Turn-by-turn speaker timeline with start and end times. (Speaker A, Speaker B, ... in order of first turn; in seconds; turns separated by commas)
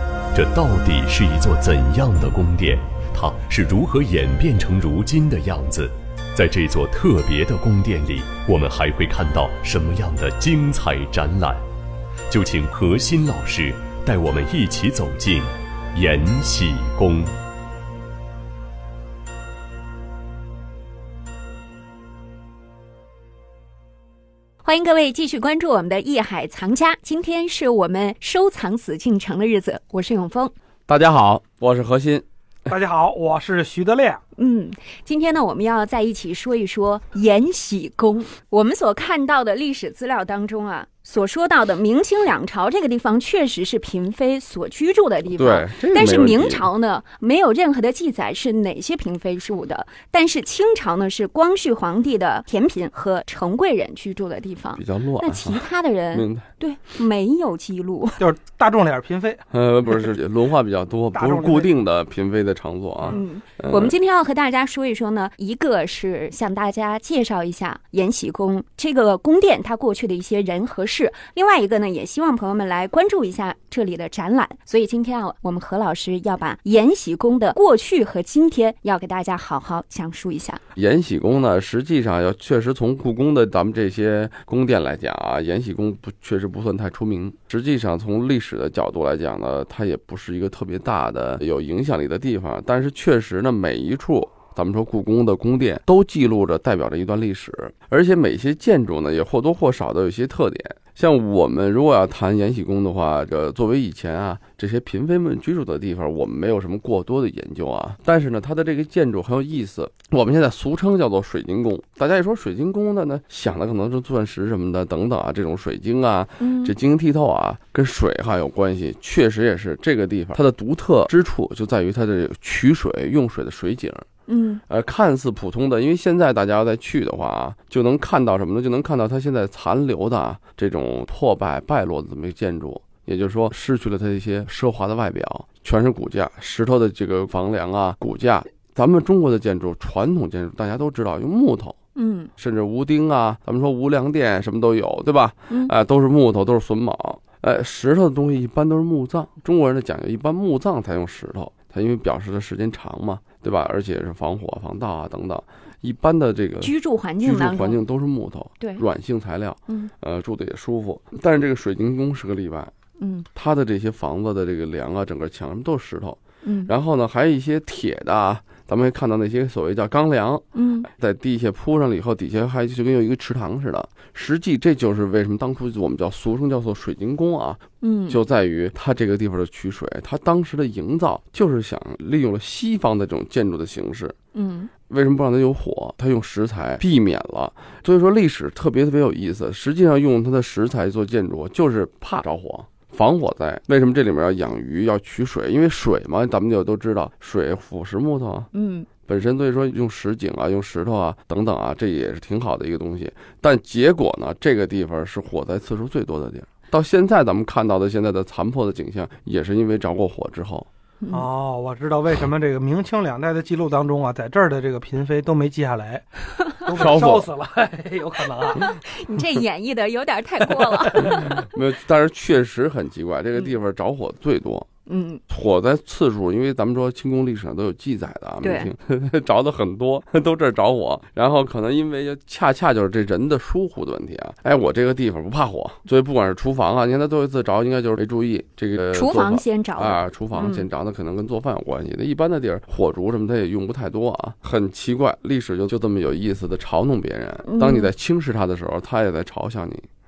Speaker A: 0.3-11.6, Speaker A: 12.3-17.3, Speaker B: 24.6-30.5, Speaker C: 30.9-32.2, Speaker D: 32.7-34.2, Speaker B: 34.4-58.2, Speaker C: 45.3-46.7, Speaker C: 54.8-56.5, Speaker D: 58.2-59.4, Speaker C: 59.5-64.0, Speaker D: 61.1-61.7, Speaker B: 63.1-80.6, Speaker C: 80.8-124.1, Speaker B: 116.4-116.7, Speaker B: 124.3-124.6, Speaker C: 124.7-141.8, Speaker B: 141.9-142.3, Speaker C: 142.4-162.7, Speaker B: 156.6-157.8, Speaker B: 158.6-158.8, Speaker B: 163.0-163.3, Speaker C: 163.3-184.2, Speaker B: 166.4-166.7, Speaker B: 170.6-170.9, Speaker B: 177.8-178.2, Speaker B: 184.3-184.7, Speaker C: 184.9-198.5, Speaker B: 198.5-198.9, Speaker C: 199.1-210.7, Speaker D: 211.1-216.1, Speaker D: 216.7-218.6, Speaker C: 216.8-217.3, Speaker B: 218.5-221.5, Speaker C: 221.1-224.7, Speaker B: 224.9-225.2, Speaker C: 225.3-249.9, Speaker B: 228.4-228.7, Speaker B: 238.9-240.7, Speaker B: 247.5-247.9